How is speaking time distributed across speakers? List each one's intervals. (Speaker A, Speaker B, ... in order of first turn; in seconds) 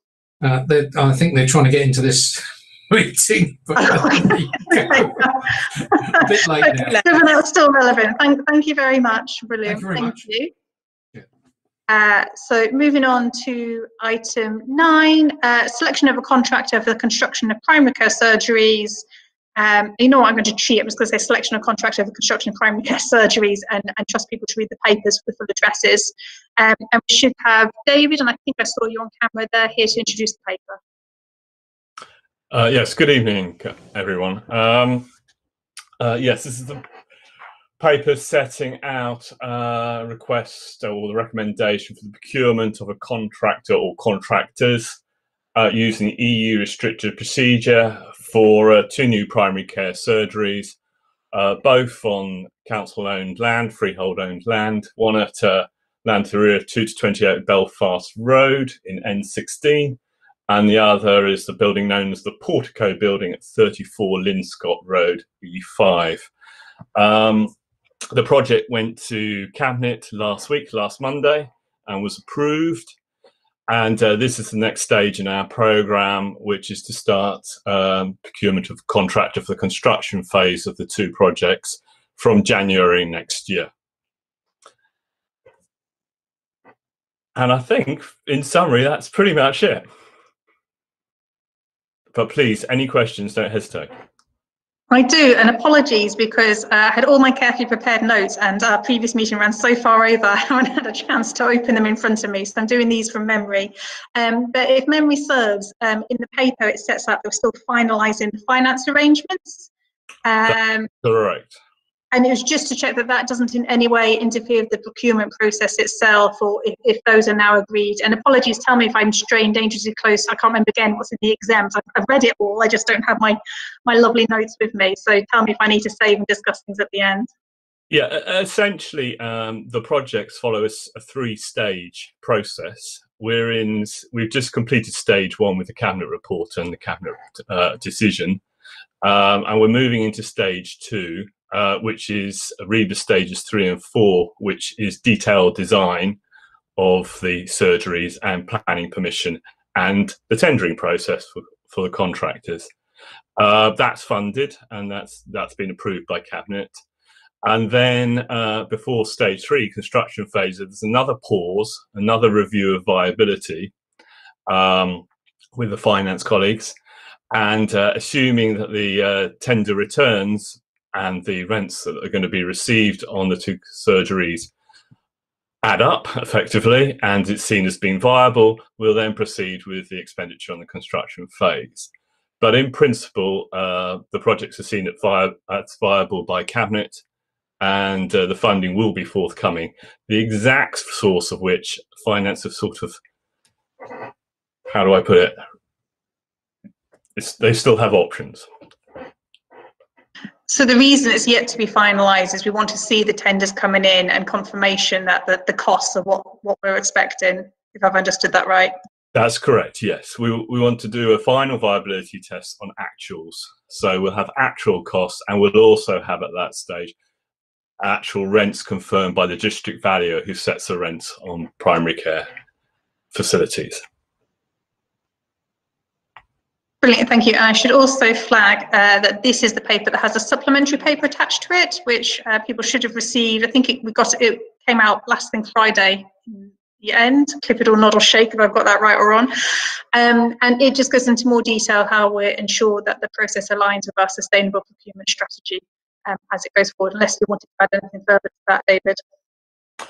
Speaker A: 0.4-5.3, 6.0-7.0, 9.7-10.2
Speaker B: 3.8-10.5, 11.9-19.1, 19.6-30.8, 94.9-109.7, 110.2-110.9, 112.1-127.3, 200.5-208.7, 226.8-239.3, 239.9-249.0
Speaker C: 32.5-35.1, 36.0-36.8, 37.8-45.0, 45.5-50.8, 51.3-66.3, 67.0-67.5, 68.1-73.0, 73.7-83.7, 87.4-89.8, 92.1-93.9, 110.5-111.5, 127.9-138.4, 139.0-146.2, 146.8-152.7, 153.4-156.8, 157.4-163.7, 164.5-166.8, 167.3-174.5, 175.6-181.9, 182.4-187.0, 187.6-192.9, 194.7-195.4, 197.2-198.5, 209.1-216.9, 217.8-222.3, 223.1-223.8